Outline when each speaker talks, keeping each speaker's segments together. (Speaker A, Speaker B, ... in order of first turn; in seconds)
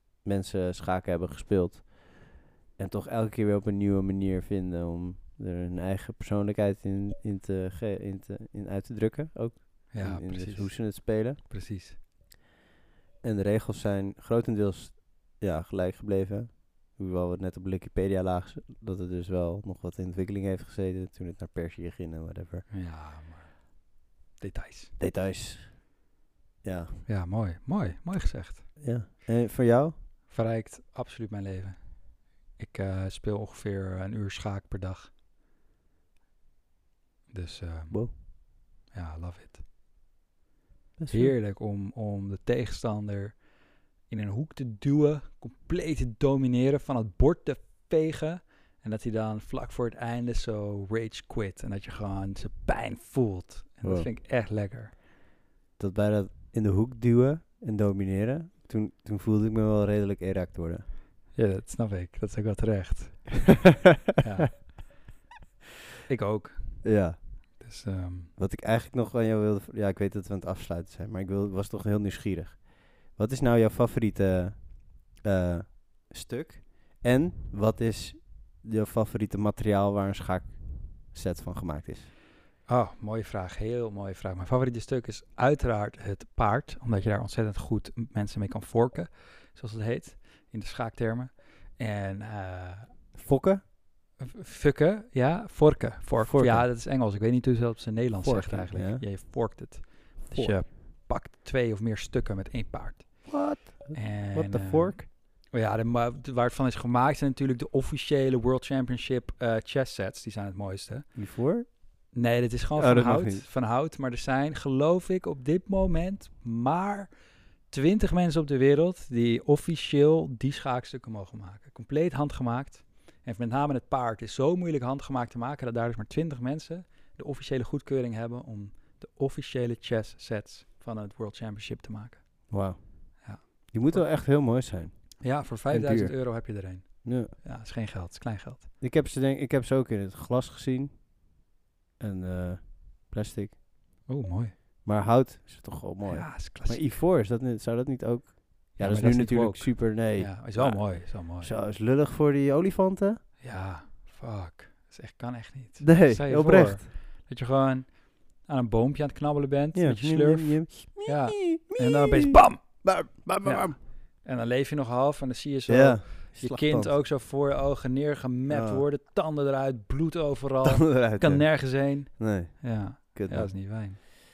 Speaker A: 0.2-11.4, 13.2-22.7, 25.0-25.9, 26.6-27.0, 28.8-29.9, 41.0-41.4, 53.8-54.1, 55.8-60.8, 66.8-67.2, 68.4-82.1, 93.1-93.6, 96.2-96.7, 98.2-99.6, 100.3-100.6, 103.3-105.1, 111.2-112.1, 112.8-113.5, 132.5-137.3, 138.8-141.1, 142.0-143.6, 144.8-153.2, 155.8-156.9, 159.7-163.8, 165.7-167.0, 168.5-168.8, 170.7-174.1
Speaker B: 9.9-12.0, 22.7-24.9, 27.1-28.8, 30.3-35.1, 37.3-39.6, 41.1-54.9, 61.3-63.6, 64.2-65.0, 66.1-68.3, 82.7-93.2, 94.2-132.6, 133.2-134.6, 135.2-138.7, 144.1-144.6, 146.1-146.9, 148.8-151.5, 153.4-174.0